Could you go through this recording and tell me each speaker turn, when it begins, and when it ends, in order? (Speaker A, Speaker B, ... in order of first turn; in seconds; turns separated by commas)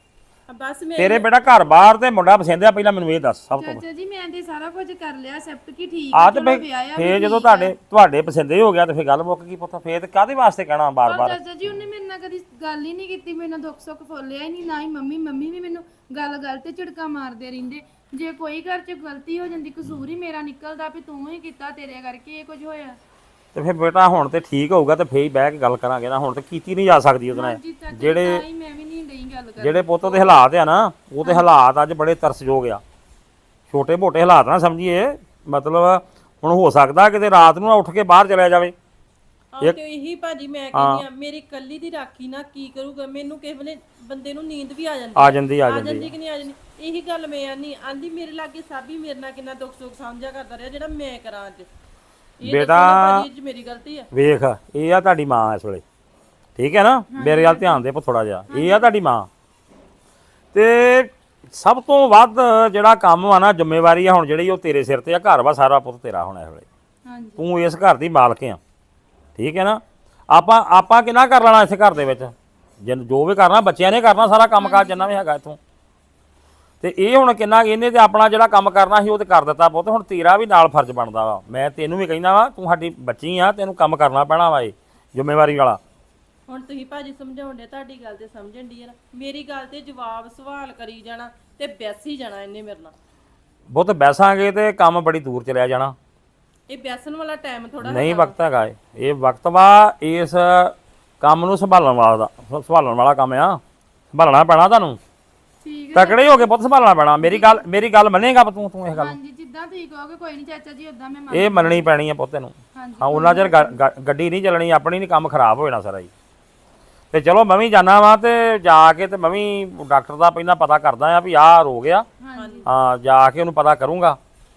Speaker A: 0.5-1.3, Speaker B: 1.0-3.8, Speaker C: 3.5-7.7, Speaker B: 6.1-11.4, Speaker C: 11.0-23.0, Speaker B: 23.5-28.4, Speaker C: 27.3-30.3, Speaker B: 29.6-32.8, Speaker B: 33.7-38.7, Speaker A: 39.5-51.7, Speaker B: 40.7-41.0, Speaker B: 45.1-46.1, Speaker A: 52.4-54.1, Speaker B: 52.4-53.2, Speaker B: 54.1-55.8, Speaker B: 56.5-59.3, Speaker C: 57.1-57.8, Speaker C: 58.5-58.9, Speaker B: 60.5-66.7, Speaker C: 67.0-67.4, Speaker B: 67.4-68.6, Speaker B: 69.4-75.6, Speaker C: 74.6-75.2, Speaker B: 76.8-85.8, Speaker A: 86.5-92.9, Speaker B: 93.7-95.9, Speaker A: 96.7-98.3, Speaker B: 97.8-103.6, Speaker B: 104.1-105.0, Speaker C: 105.6-106.5, Speaker B: 105.9-109.2, Speaker C: 107.2-107.6, Speaker C: 108.9-111.9, Speaker B: 111.3-116.1, Speaker C: 112.7-113.8, Speaker B: 117.1-122.0, Speaker C: 122.2-122.6, Speaker A: 122.3-122.7, Speaker B: 122.7-124.2